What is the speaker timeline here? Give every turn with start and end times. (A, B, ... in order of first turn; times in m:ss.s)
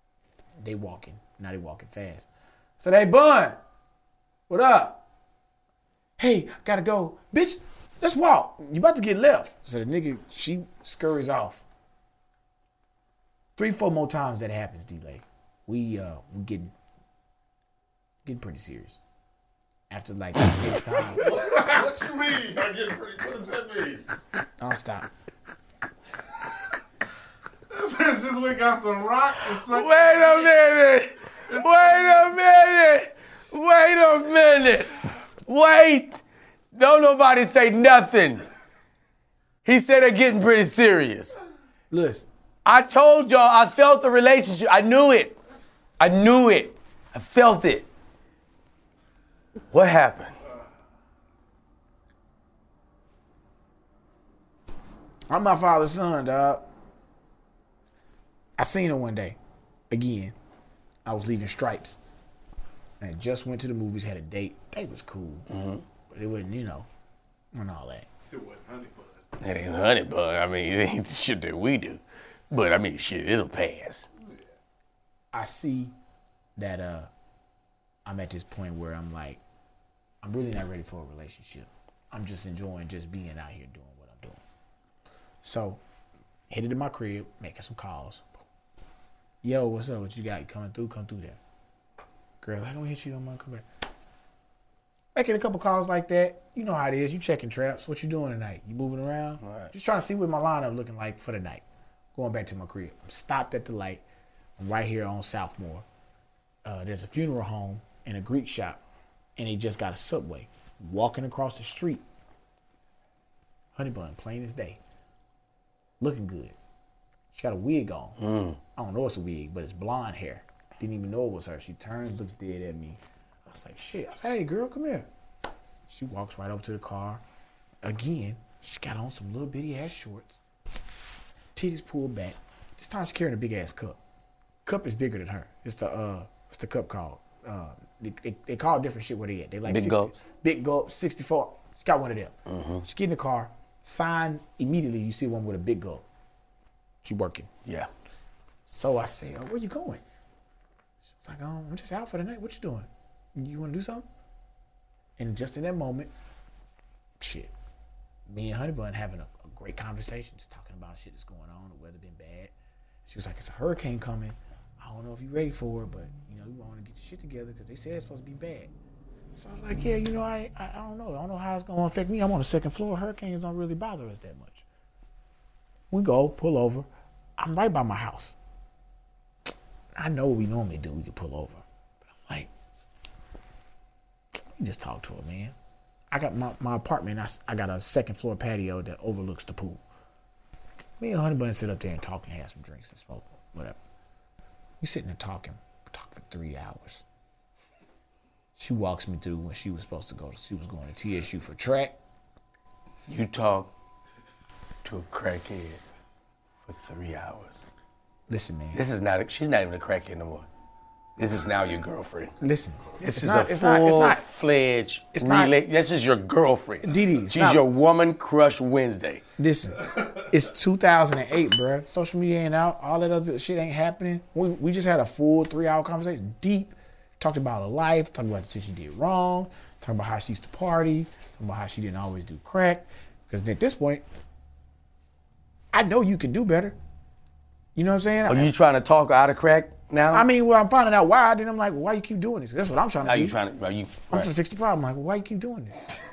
0:00.6-0:03.6 A
0:04.5-0:05.0 A
0:06.2-0:11.7 A
0:13.6-0:16.7 A
0:18.2-0:19.0 A
0:19.9-0:21.4 A
0:21.2-0:24.0 B
0:24.6-0:25.1 A
0:27.7-0:30.2 B
0:29.5-0:36.2 C
0:36.7-0:38.4 C
0:39.6-0:41.4 C
0:41.9-0:42.3 A
0:42.6-0:45.4 C
0:46.0-0:47.9 C
0:49.7-0:50.4 C
0:55.3-0:56.7 A
0:58.6-0:59.4 A
0:59.9-1:00.4 A
1:01.1-1:02.0 A
1:03.0-1:05.5 A
1:05.5-1:05.8 C
1:06.1-1:06.9 A
1:07.5-1:08.1 A
1:08.3-1:09.1 B
1:09.4-1:14.1 C
1:15.3-1:16.0 A
1:16.6-1:17.1 A
1:18.1-1:19.4 A
1:20.2-1:24.4 A
1:25.4-1:25.8 A
1:26.5-1:28.3 A
1:29.4-1:31.4 A
1:32.4-1:33.7 A
1:35.1-1:41.6 A
1:39.4-1:39.7 C
1:42.2-1:44.0 A
1:44.6-1:45.9 A
1:46.6-1:48.8 A
1:49.4-1:52.0 A
1:53.8-1:54.8 A
1:56.0-1:56.6 A
1:57.3-1:58.2 A
1:58.2-1:58.6 C
1:58.8-2:05.1 A
2:05.9-2:07.2 A
2:07.8-2:10.4 A
2:11.6-2:14.0 A
2:14.6-2:26.0 A
2:19.7-2:20.1 C
2:22.5-2:22.8 C
2:27.0-2:27.5 A
2:28.7-2:30.0 A
2:31.1-2:34.1 A
2:35.2-2:36.1 A
2:37.2-2:37.5 A
2:38.3-2:42.6 A
2:43.1-2:48.7 A
2:49.3-2:54.7 A
2:55.9-2:58.4 A
3:00.0-3:02.5 A
3:04.6-3:05.6 A
3:06.1-3:09.8 A
3:11.0-3:13.8 A
3:14.8-3:17.0 A
3:18.6-3:22.0 A
3:23.1-3:23.7 C
3:24.8-3:25.8 C
3:26.6-3:27.7 C
3:28.3-3:28.8 A
3:28.7-3:30.5 C
3:31.2-3:32.4 C
3:32.4-3:34.2 A
3:33.0-3:39.2 C
3:35.2-3:35.6 A
3:36.8-3:37.6 A
3:39.4-3:54.0 A
3:55.7-3:56.8 A
3:57.8-3:58.5 A
3:58.3-4:00.3 C
4:00.1-4:03.4 A
4:03.0-4:04.3 C
4:04.1-4:06.0 A